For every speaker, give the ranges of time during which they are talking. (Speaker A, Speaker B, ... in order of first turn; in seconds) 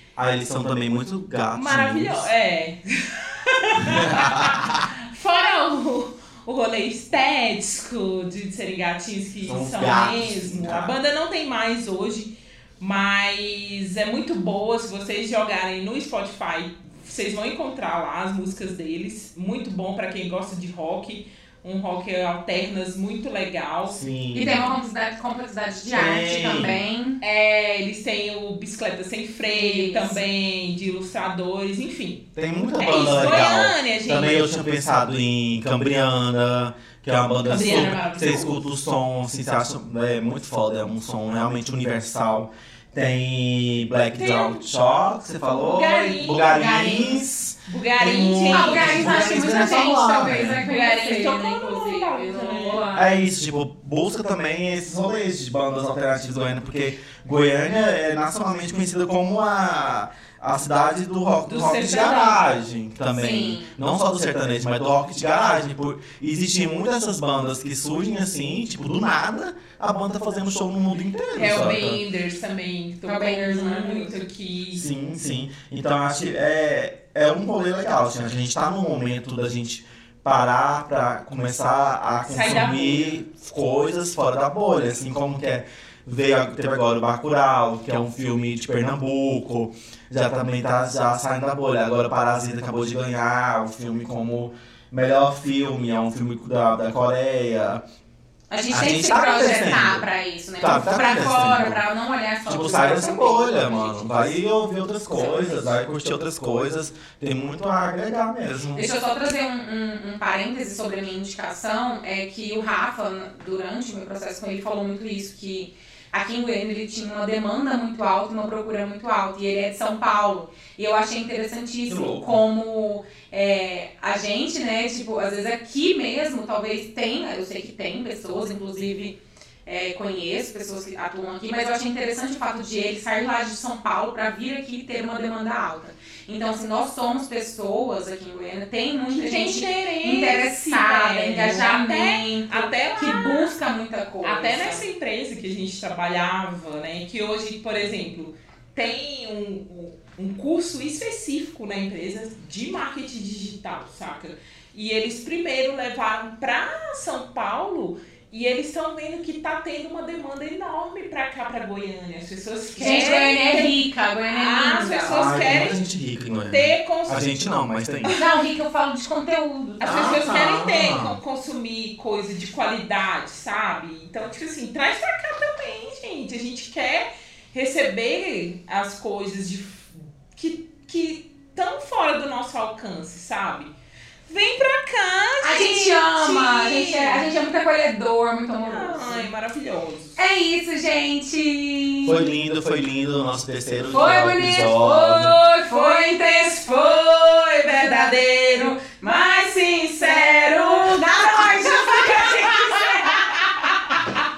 Speaker A: 0.2-2.3, 3.8-4.8, 9.4-10.9, 23.9-24.6, 25.9-26.8, 32.4-50.6, 52.9-72.0, 74.7-97.8, 98.7-100.0, 100.6-101.8, 102.4-108.8, 121.9-122.3, 165.1-168.1, 169.8-171.2, 192.0-195.4
Speaker B: 1.5-24.0, 27.2-34.6, 37.5-38.6, 44.1-44.6, 45.5-49.7, 50.6-52.9, 61.5-62.5, 71.3-74.8, 82.2-83.2, 139.1-143.6, 144.2-165.8, 166.5-167.2, 168.0-168.3, 169.8-183.7, 184.3-187.3, 188.6-190.2, 195.6-196.9, 197.5-204.0
Speaker C: 24.3-27.2, 29.5-30.2, 46.5-47.2, 48.5-53.1, 63.1-63.7, 73.0-74.2, 98.5-104.1, 105.1-105.7, 108.7-144.8, 162.8-165.4, 168.1-170.4, 185.4-189.3, 190.2-192.3, 193.9-204.2